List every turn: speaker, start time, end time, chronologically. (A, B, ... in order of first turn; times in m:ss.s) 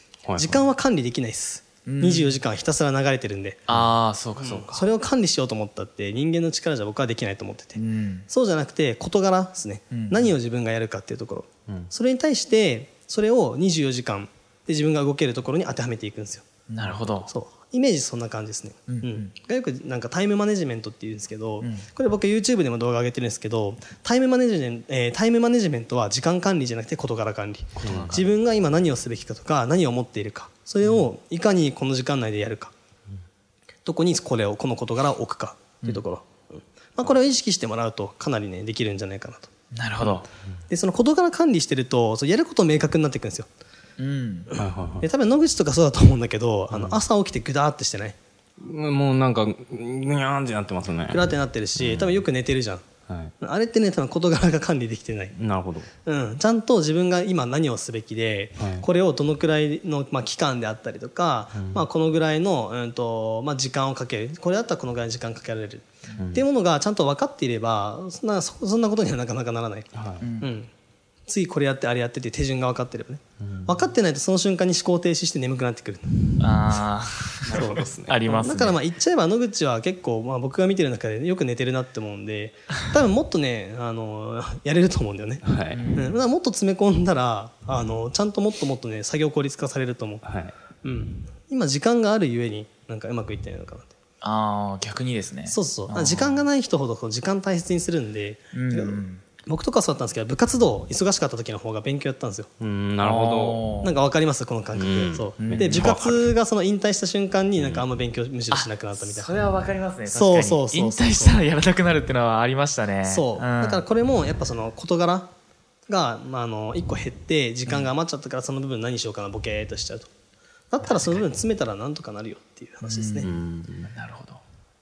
0:00.3-0:00.6 A
0:00.4-0:03.6 B
0:01.9-0:02.4 C
0:03.7-0:04.8 C
0:04.4-0:16.4 B
0:07.8-0:08.3 C
0:09.9-0:10.3 C
0:16.7-0:17.3 C
0:17.2-0:32.7 B
0:18.9-0:19.3 C
0:27.8-0:28.3 A
0:27.9-0:28.1 C
0:33.8-0:39.5 B
0:39.7-0:40.3 C
0:40.7-0:43.5 B
0:44.0-0:44.5 C
0:44.6-0:45.1 A
0:45.0-0:48.2 B
0:46.7-0:47.0 A
0:48.6-0:51.2 A
0:51.1-0:52.9 B
0:51.8-0:52.2 A
0:53.4-0:55.4 B
0:55.4-0:55.9 A
0:56.0-1:10.7 B
0:58.6-0:58.8 A
1:06.2-1:06.4 A
1:09.9-1:10.2 A
1:10.2-1:10.5 C
1:11.3-1:16.4 B
1:13.4-1:13.8 A
1:16.4-1:18.8 C
1:17.5-1:18.2 A
1:17.5-1:30.2 B
1:25.5-1:25.8 A
1:25.7-1:26.2 C
1:30.2-1:30.5 A
1:30.8-1:33.9 B
1:34.2-1:36.4 C
1:35.5-1:42.5 B
1:38.5-1:39.2 C
1:42.6-1:43.6 A
1:43.0-1:43.9 C
1:43.8-1:49.3 B
1:44.7-1:46.3 A
1:45.4-1:45.9 C
1:47.6-1:47.8 A
1:48.5-1:53.8 C
1:50.1-1:51.4 B
1:53.1-1:55.3 B
1:55.9-2:00.1 B
2:00.7-2:03.3 B
2:00.8-2:01.3 C
2:02.8-2:03.3 C
2:03.2-2:03.9 A
2:03.9-2:04.4 C